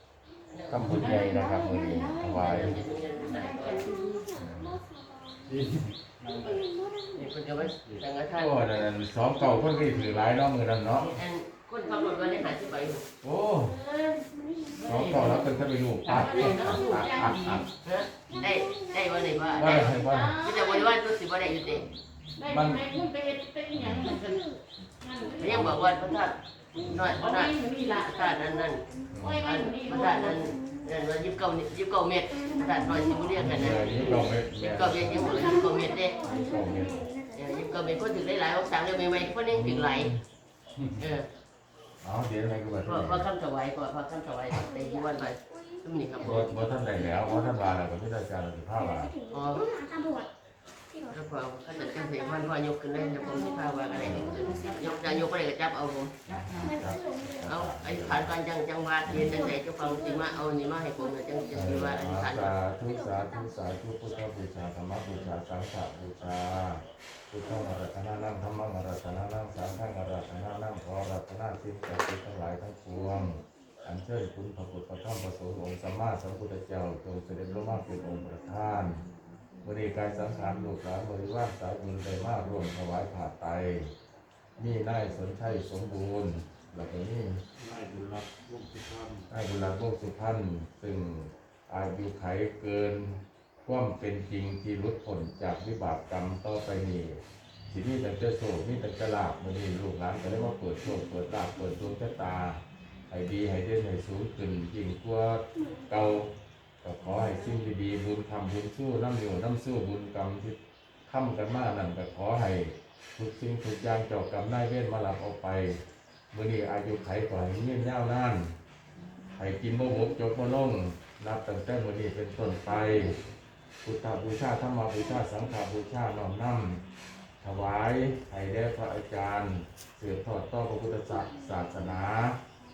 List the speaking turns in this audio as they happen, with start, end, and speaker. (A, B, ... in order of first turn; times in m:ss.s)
0:00.5-0:01.1 A
0:00.7-0:02.8 B
0:00.8-0:04.3 C
0:02.3-0:03.9 A
0:03.7-0:05.6 D
0:04.3-0:04.8 B
0:05.6-0:06.6 E
0:06.4-0:07.3 D
0:07.2-0:08.8 A
0:08.3-0:11.1 B
0:09.7-0:10.2 D
0:11.0-0:13.1 A
0:13.2-0:13.8 B
0:13.7-0:17.7 C
0:14.3-0:14.9 D
0:14.8-0:17.7 B
0:16.4-0:16.7 D
0:17.8-0:21.9 A
0:18.3-0:19.9 D
0:19.6-0:20.4 B
0:20.0-0:20.9 C
0:22.4-0:26.0 C
0:22.5-0:22.9 B
0:23.7-0:24.2 B
0:24.2-0:24.6 D
0:25.4-0:28.8 A
0:25.5-0:25.8 B
0:26.8-0:27.2 B
0:26.8-0:27.1 D
0:27.1-0:28.4 C
0:28.4-0:29.1 D
0:29.1-0:29.4 B
0:29.2-0:30.5 C
0:29.4-0:36.3 A
0:30.4-0:30.9 D
0:32.4-0:34.3 D
0:33.4-0:35.6 B
0:35.0-0:38.1 D
0:36.2-0:37.1 B
0:37.3-0:40.1 A
0:39.5-0:40.2 B
0:41.0-0:41.3 A
0:42.0-0:43.3 B
0:42.9-0:46.5 A
0:44.7-0:45.8 D
0:46.2-0:49.1 B
0:46.4-0:47.7 D
0:48.8-0:50.3 D
0:49.3-0:49.7 A
0:51.1-0:56.1 A
0:51.8-0:54.8 D
0:53.9-0:55.2 C
0:54.0-0:54.4 B
0:56.3-0:58.3 B
0:56.3-0:56.8 C
0:56.6-0:57.4 D
0:57.4-1:02.6 A
0:59.1-0:59.4 B
0:59.1-1:00.3 D
1:01.0-1:01.6 D
1:01.5-1:19.0 B
1:02.9-1:03.6 D
1:18.8-1:20.4 C
1:19.6-1:23.9 B
1:24.6-1:27.4 B
1:27.6-1:29.2 E
1:29.2-1:46.3 B
1:45.7-1:46.0 D
1:46.8-1:55.8 B
1:56.3-1:58.6 B
1:59.0-1:59.6 C
1:59.4-2:03.2 B
2:03.8-2:06.8 B
2:07.4-2:12.4 B